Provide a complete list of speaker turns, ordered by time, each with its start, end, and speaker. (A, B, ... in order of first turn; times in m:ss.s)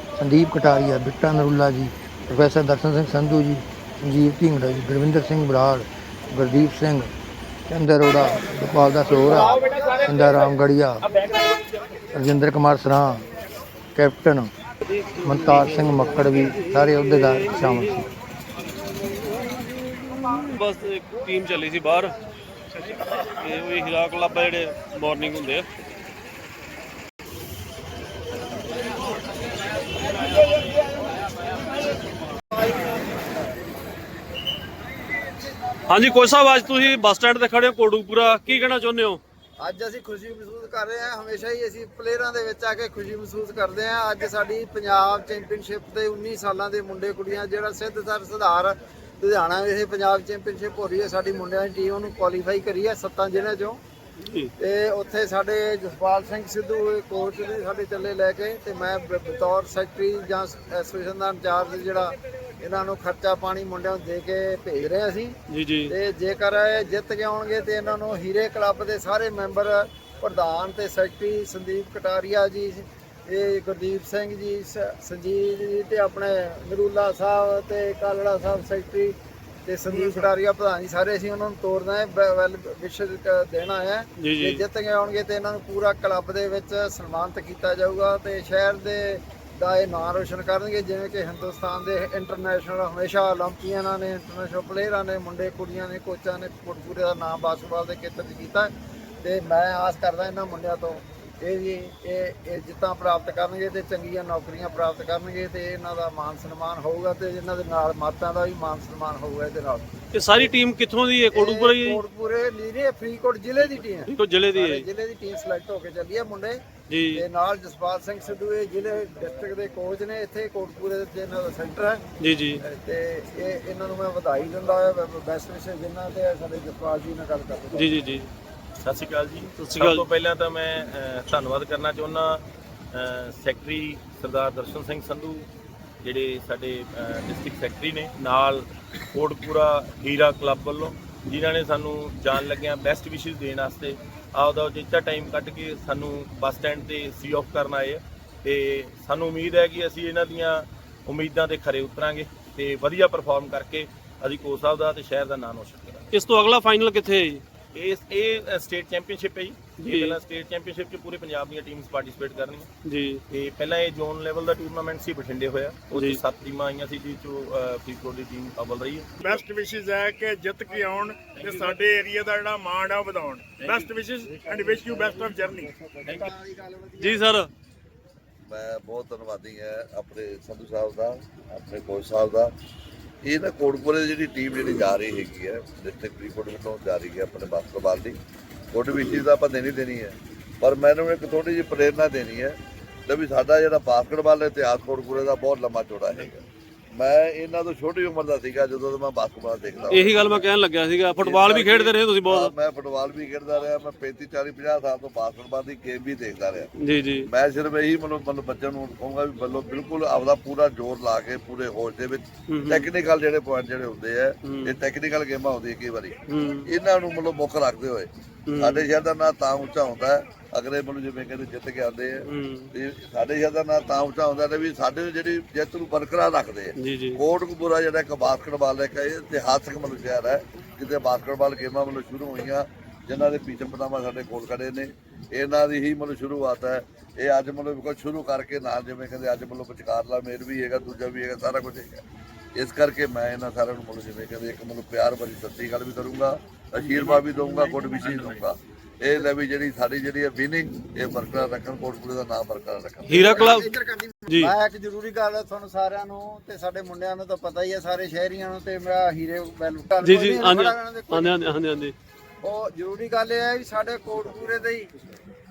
0:00.2-0:07.1 A
0:07.7-0:11.1 A
0:09.6-0:09.9 B
0:12.1-0:13.3 A
0:14.0-0:14.5 A
0:14.9-0:17.9 C
0:15.2-0:18.0 A
0:20.0-0:22.2 C
0:22.7-0:25.7 C
0:32.5-0:33.0 B
0:35.8-0:39.2 C
0:39.6-0:53.8 B
0:54.2-0:54.5 C
0:54.6-1:38.7 B
1:05.5-1:05.9 C
1:19.9-1:20.3 D
1:24.2-1:24.6 C
1:39.2-1:50.5 B
1:50.1-1:52.0 C
1:51.3-2:02.0 B
1:54.1-1:54.8 C
1:56.9-1:57.2 C
2:02.2-2:02.6 C
2:02.6-2:07.9 B
2:07.7-2:08.3 C
2:08.8-2:12.4 E
2:09.6-2:10.0 C
2:12.9-2:15.5 E
2:16.0-2:36.1 E
2:36.1-2:37.4 C
2:37.7-2:42.7 E
2:39.8-2:40.2 C
2:42.8-2:43.2 C
2:43.3-2:49.4 E
2:45.9-2:46.2 C
2:49.2-2:55.7 D
2:51.3-2:51.7 E
2:53.6-2:53.8 E
2:54.4-2:57.3 B
2:57.0-2:57.5 C
2:58.5-3:02.5 F
3:03.2-3:08.2 F
3:08.7-3:16.4 F
3:16.9-3:20.5 F
3:19.9-3:22.5 C
3:21.2-3:26.7 F
3:26.8-3:27.3 C
3:27.2-4:02.0 F
3:32.5-3:32.8 C
3:34.4-3:34.7 C
3:36.3-3:36.7 C
3:38.5-3:38.9 C
3:42.2-3:42.7 C
3:46.8-3:47.2 C
4:02.5-4:13.4 F
4:06.8-4:08.4 E
4:13.1-4:13.6 C
4:13.1-4:21.3 B
4:14.3-4:14.5 C
4:20.0-4:21.9 C
4:22.4-4:24.9 B